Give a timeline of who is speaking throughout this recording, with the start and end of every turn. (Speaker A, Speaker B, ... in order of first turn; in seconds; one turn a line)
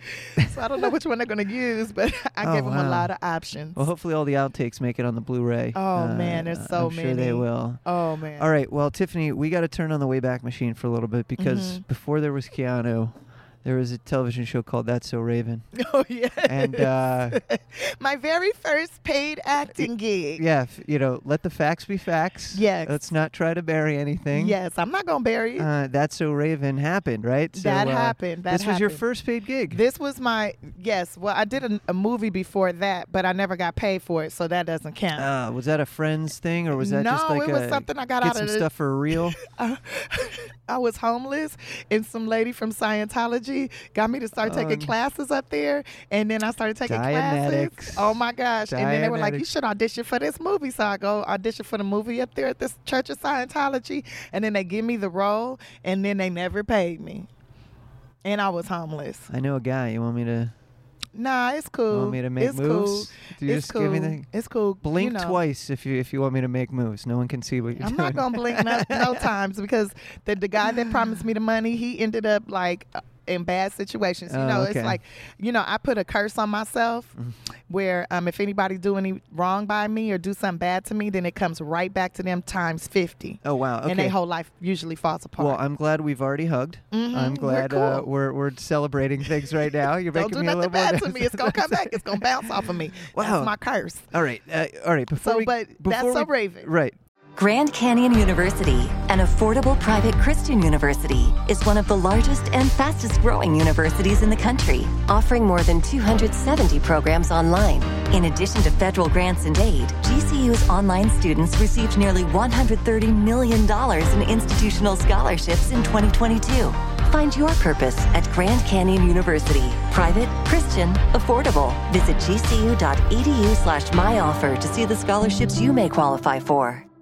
Speaker A: 0.2-3.8
Speaker B: 0.4-0.9
Speaker B: 2.4-3.1
Speaker B: 3.8-7.8
Speaker A: 5.7-8.5
Speaker B: 8.4-15.6
Speaker A: 11.4-11.8
Speaker A: 15.8-20.4
Speaker B: 16.4-17.4
Speaker B: 19.7-24.6
Speaker A: 22.5-23.0
Speaker A: 24.3-25.7
Speaker B: 25.6-29.8
Speaker A: 27.6-29.0
Speaker A: 29.7-35.3
Speaker B: 35.1-39.4
Speaker A: 36.8-38.6
Speaker A: 39.4-57.3
Speaker B: 44.4-44.9
Speaker B: 46.8-49.5
Speaker A: 58.2-59.3
Speaker B: 59.3-60.5
Speaker A: 61.1-65.4
Speaker B: 61.9-64.3
Speaker B: 64.8-69.3
Speaker A: 67.8-77.1
Speaker B: 74.3-75.0
Speaker A: 77.7-85.6
Speaker B: 83.4-84.2
Speaker B: 85.4-92.5
Speaker A: 86.9-88.1
Speaker A: 90.1-94.0
Speaker B: 93.1-93.5
Speaker B: 94.1-97.0
Speaker A: 95.2-96.7
Speaker C: 97.4-126.8